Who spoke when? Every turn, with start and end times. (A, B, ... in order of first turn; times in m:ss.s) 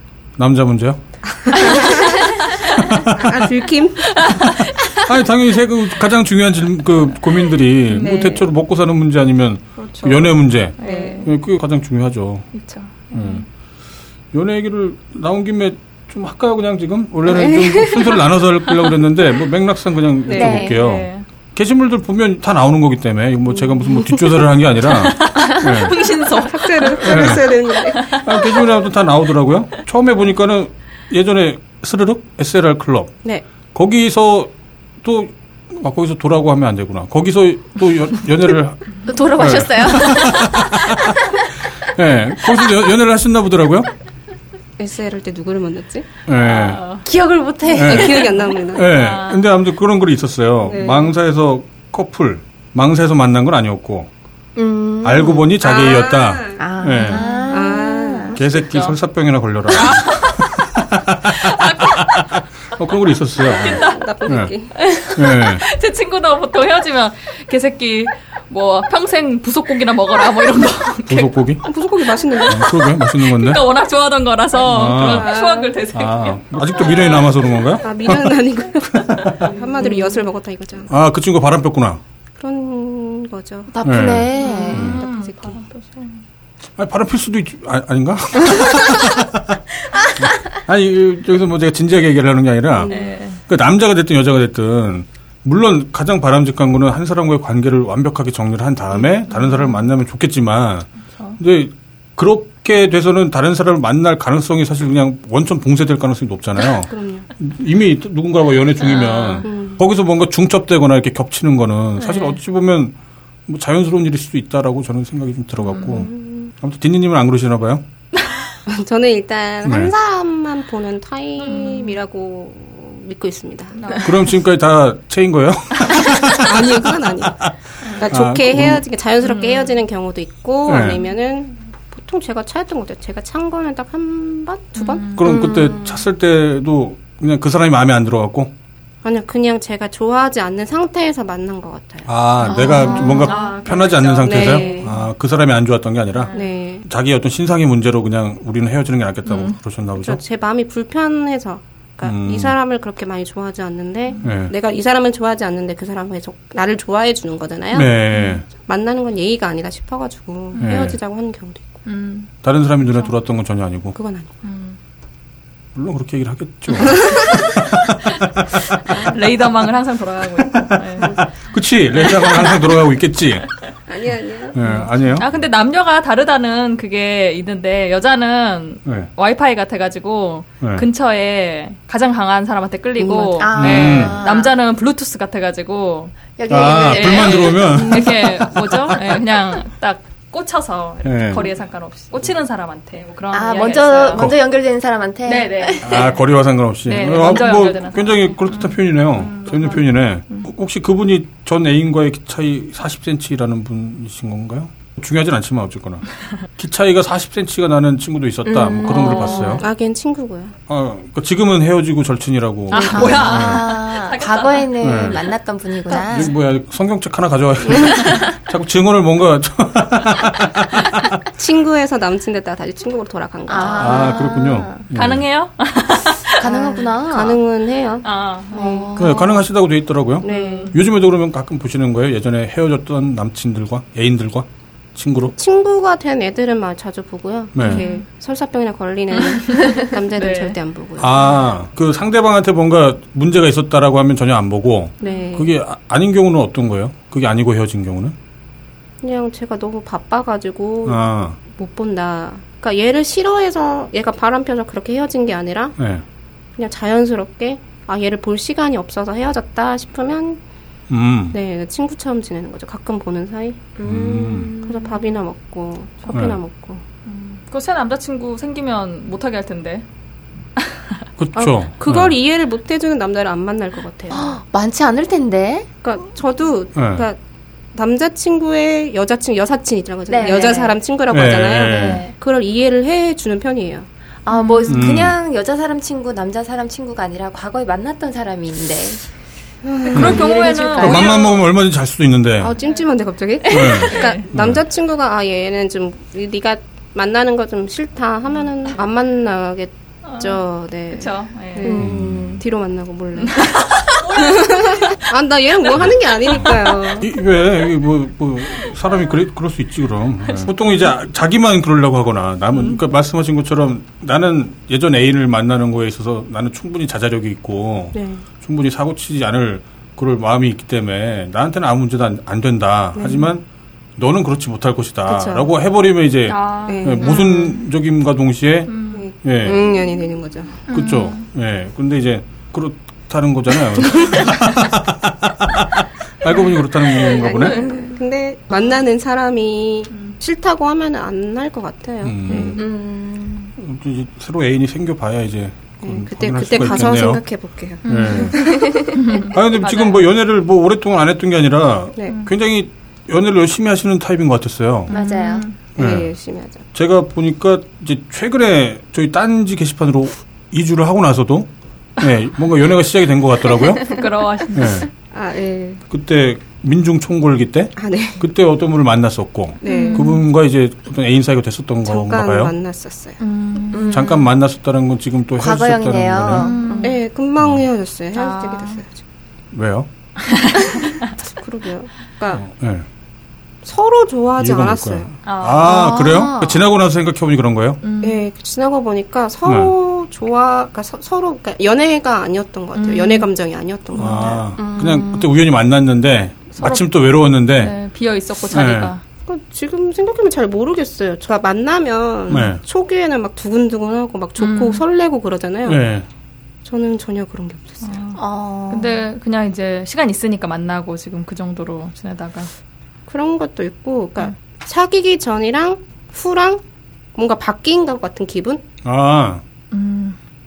0:00.4-0:01.6 A
0:01.2-0:02.3 B
0:01.6-0:03.0 C
0:02.7-0:03.4 A
0:03.1-0:04.5 B
0:04.0-0:05.1 C
0:05.0-0:12.5 A
0:07.9-0:08.5 B
0:09.8-0:11.3 B
0:10.8-0:11.3 C
0:12.5-0:13.5 C
0:13.1-0:13.4 A
0:14.3-0:26.0 A
0:17.2-0:18.3 B
0:20.3-0:20.7 B
0:20.3-0:20.8 D
0:20.5-0:21.3 C
0:23.6-0:24.5 B
0:24.9-0:28.8 C
0:25.4-0:25.6 D
0:26.4-0:28.2 B
0:27.0-0:43.9 A
0:39.0-0:41.2 D
0:44.8-0:46.1 B
0:46.3-0:46.9 A
0:46.4-0:47.1 C
0:47.0-0:48.2 D
0:47.7-0:54.1 A
0:47.8-0:48.9 B
0:48.2-0:49.5 C
0:50.6-0:51.2 B
0:54.6-0:55.6 D
0:55.0-0:57.2 A
0:55.6-0:56.7 B
0:56.6-0:58.4 D
0:57.0-0:57.7 C
0:57.5-0:58.4 B
0:58.4-1:04.5 A
0:58.5-0:59.0 C
0:59.7-1:00.5 C
1:01.3-1:02.3 C
1:03.4-1:04.1 C
1:03.6-1:04.7 B
1:04.8-1:11.4 C
1:05.2-1:05.6 A
1:11.1-1:11.6 A
1:11.6-1:12.8 B
1:12.3-1:17.8 C
1:12.5-1:13.6 A
1:14.6-1:15.7 B
1:14.7-1:15.3 A
1:15.9-1:18.3 A
1:17.8-1:20.9 B
1:19.0-1:19.5 A
1:19.3-1:20.0 C
1:20.9-1:22.0 A
1:22.4-1:23.7 B
1:23.7-1:25.0 D
1:23.8-1:25.0 A
1:24.4-1:25.6 B
1:24.4-1:26.2 C
1:26.8-1:29.6 A
1:30.2-1:53.0 A
1:32.7-1:33.1 B
1:32.9-1:33.4 C
1:46.9-1:47.3 B
1:48.8-1:49.5 C
1:49.4-1:49.8 B
1:52.0-1:52.4 C
1:53.5-1:57.8 A
1:55.7-1:56.5 B
1:58.2-1:58.5 C
1:58.7-2:03.9 B
1:59.6-1:59.9 A
2:01.4-2:02.0 C
2:03.8-2:04.2 C
2:04.0-2:07.0 A
2:06.4-2:15.1 B
2:08.1-2:08.8 A
2:09.2-2:09.8 C
2:10.7-2:11.0 A
2:14.8-2:15.4 C
2:15.2-2:18.5 A
2:15.2-2:16.1 D
2:19.0-2:22.1 B
2:22.1-2:30.2 A
2:22.4-2:23.5 D
2:22.5-2:25.0 C
2:24.2-2:24.9 B
2:26.1-2:26.5 C
2:26.3-2:26.8 B
2:29.2-2:29.6 C
2:30.0-2:37.9 B
2:32.0-2:32.6 A
2:34.2-2:34.5 A
2:37.7-2:38.5 A
2:38.1-2:38.4 C
2:38.5-2:41.8 B
2:40.5-2:40.9 C
2:40.6-2:41.0 A
2:41.9-2:42.3 C
2:42.4-2:44.0 A
2:44.0-2:44.3 B
2:44.4-2:44.8 C
2:45.8-2:49.1 A
2:46.8-2:47.1 B
2:48.8-2:51.2 C
2:50.5-2:53.5 A
2:51.9-2:52.8 C
2:53.9-2:54.6 B
2:54.5-2:55.3 A
2:54.6-3:14.3 C
3:00.6-3:00.9 A
3:03.0-3:03.4 B
3:03.4-3:04.6 D
3:03.6-3:04.2 A
3:06.4-3:08.0 D
3:06.5-3:09.0 A
3:11.0-3:11.5 A
3:13.3-3:16.2 D
3:15.2-3:16.2 C
3:15.8-3:29.6 A
3:16.9-3:20.5 C
3:28.4-3:29.6 D
3:28.8-3:29.6 C
3:29.6-3:30.6 B
3:30.7-3:33.6 A
3:32.7-3:35.2 C
3:32.7-3:36.3 D
3:34.8-3:35.2 A
3:36.0-3:41.2 A
3:41.4-3:44.2 B
3:43.5-3:44.8 D
3:43.8-3:45.2 A
3:44.9-3:46.5 C
3:46.4-3:47.4 D
3:46.4-3:49.1 B
3:48.0-3:48.8 C
3:48.5-3:49.4 D
3:49.0-3:55.3 A
3:50.2-3:50.8 B
3:50.2-3:50.8 C
3:55.4-4:01.5 B
3:57.6-3:57.8 A
3:57.6-3:58.0 C
3:59.2-4:00.6 C
4:01.0-4:08.2 A
4:05.0-4:05.3 C
4:05.0-4:05.5 B
4:09.0-4:15.8 B
4:10.9-4:11.4 A
4:15.8-4:16.0 A
4:16.6-4:20.4 B
4:20.9-4:21.4 A
4:21.3-4:23.7 B
4:23.8-4:25.0 D
4:23.8-4:24.5 A
4:24.6-4:26.8 B
4:26.1-4:26.4 A
4:27.1-4:29.9 C
4:30.6-4:31.0 C
4:31.2-4:32.1 A
4:31.4-4:34.3 B
4:34.1-4:35.7 D
4:35.8-4:37.2 B
4:36.8-4:37.0 A
4:37.8-4:43.9 B
4:40.1-4:40.8 D
4:41.1-4:42.0 A
4:41.7-4:42.1 D
4:44.2-4:49.0 D
4:44.3-4:44.9 C
4:44.7-4:45.2 A
4:49.6-4:50.2 B
4:49.9-4:51.2 D
4:49.9-4:51.4 C
4:49.9-4:50.2 A
4:50.8-4:52.5 A
4:52.4-5:07.1 B
4:53.5-4:54.6 A
4:53.5-4:54.3 C
5:00.0-5:01.8 C
5:01.6-5:02.4 D
5:01.8-5:02.4 A
5:03.2-5:05.0 C
5:07.0-5:23.4 A
5:17.9-5:18.2 B
5:23.0-5:23.3 B
5:24.0-5:29.6 A
5:25.1-5:25.5 B
5:26.3-5:27.5 C
5:26.7-5:27.5 B
5:28.7-5:29.6 C
5:29.0-5:30.7 B
5:30.7-5:31.3 C
5:30.7-5:37.6 A
5:36.9-5:42.6 B
5:37.3-5:37.8 C
5:42.0-5:42.6 A
5:42.6-5:43.6 D
5:43.6-5:47.2 A
5:45.8-5:49.0 B
5:47.9-5:48.6 A
5:47.9-5:50.0 C
5:48.3-5:49.0 D
5:49.2-5:54.9 A
5:54.9-5:55.6 C
5:54.9-5:55.5 D
5:55.8-5:56.1 A
5:55.8-5:56.6 B
5:56.7-6:04.9 A
6:03.9-6:04.9 C
6:05.1-6:05.8 B
6:05.9-6:12.5 A
6:07.8-6:08.2 B
6:09.6-6:10.2 B
6:09.7-6:10.2 C
6:11.8-6:13.2 B
6:13.2-6:14.2 C
6:13.7-6:14.3 D
6:13.9-6:16.6 A
6:15.4-6:16.9 D
6:16.3-6:17.0 C
6:16.8-6:19.0 B
6:18.1-6:18.8 C
6:19.5-6:19.9 A
6:20.2-6:21.1 C
6:21.1-6:22.4 B
6:22.3-6:22.9 A
6:23.6-6:25.2 B
6:24.4-6:27.8 A
6:25.2-6:26.0 C
6:25.6-6:26.7 D
6:27.8-6:28.2 C
6:28.0-6:34.5 B
6:29.5-6:29.7 A
6:32.8-6:33.3 C
6:34.0-6:37.8 A
6:34.6-6:35.3 D
6:36.6-6:36.9 C
6:37.5-6:39.0 C
6:38.5-6:38.9 A
6:39.3-6:45.8 B
6:42.3-6:42.6 A
6:44.4-6:44.8 C
6:45.7-6:46.1 A
6:46.6-6:48.0 B
6:47.8-6:52.5 C
6:48.2-6:49.0 D
6:53.1-6:56.6 B
6:57.2-6:58.6 B
6:58.8-6:59.4 A
6:59.7-7:00.2 C